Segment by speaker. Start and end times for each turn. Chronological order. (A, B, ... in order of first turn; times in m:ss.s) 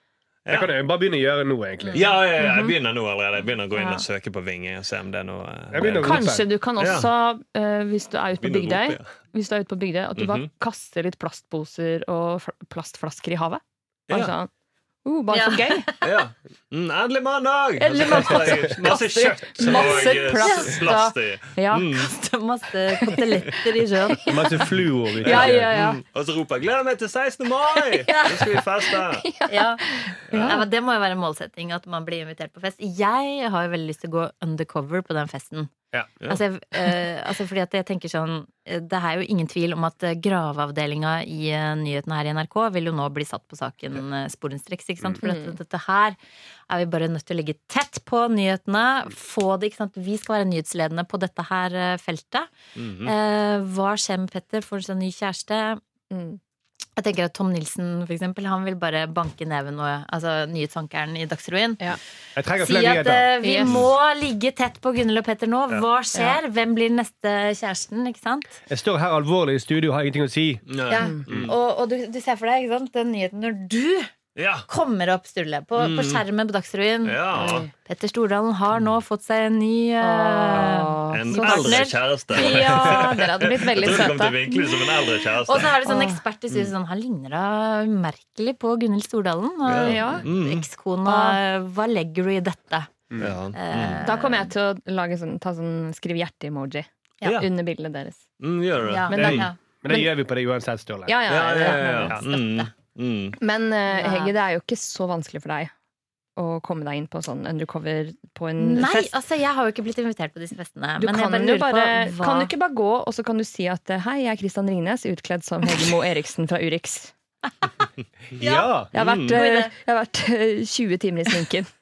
0:00.5-0:00.7 A
0:00.5-0:02.1 B
0:01.9-0:07.1 A
0:02.4-0:02.7 C
0:03.8-0:04.0 C
0:05.7-0:06.5 B
0:06.0-0:14.5 C
0:08.4-0:09.1 A
0:10.2-0:10.5 A
0:14.1-0:14.4 A
0:15.0-0:15.9 C
0:15.3-0:16.2 D
0:16.0-0:22.1 A
0:17.8-0:20.9 D
0:18.0-0:18.3 C
0:18.8-0:22.1 C
0:22.0-0:24.4 D
0:23.0-0:24.6 C
0:24.3-0:25.7 B
0:25.2-0:26.0 C
0:25.2-0:29.3 A
0:28.0-0:30.6 C
0:28.1-0:28.4 D
0:29.5-0:35.7 D
0:36.3-0:46.2 D
0:45.2-0:45.6 C
0:46.7-0:52.5 D
0:52.8-0:53.1 A
0:53.0-0:55.8 D
0:56.1-0:56.4 C
0:57.0-1:02.0 D
1:02.4-1:03.7 B
1:02.6-1:08.6 D
1:03.4-1:03.7 C
1:06.2-1:06.4 C
1:08.7-1:10.7 B
1:10.7-1:11.5 A
1:10.9-1:14.1 D
1:10.9-1:11.3 C
1:14.4-1:14.7 A
1:14.7-1:23.1 D
1:15.8-1:16.2 A
1:17.0-1:17.7 A
1:17.3-1:17.7 C
1:20.0-1:25.2 C
1:20.7-1:25.8 A
1:25.4-1:32.9 D
1:25.8-1:26.2 C
1:29.7-1:30.7 A
1:29.8-1:30.3 C
1:31.1-1:31.4 C
1:33.2-1:34.0 A
1:33.5-1:34.5 D
1:34.0-1:38.2 C
1:38.4-1:39.5 A
1:38.9-1:39.6 D
1:39.1-1:40.1 C
1:39.1-1:41.2 B
1:41.1-1:42.2 C
1:41.3-1:43.4 A
1:41.6-1:42.7 D
1:43.4-1:45.7 C
1:43.9-1:44.3 D
1:46.4-1:49.2 C
1:48.6-1:52.5 D
1:51.0-1:57.1 C
1:58.4-1:58.8 D
1:58.4-1:58.9 B
1:58.9-2:01.7 C
1:59.0-1:59.4 A
1:59.3-1:59.7 D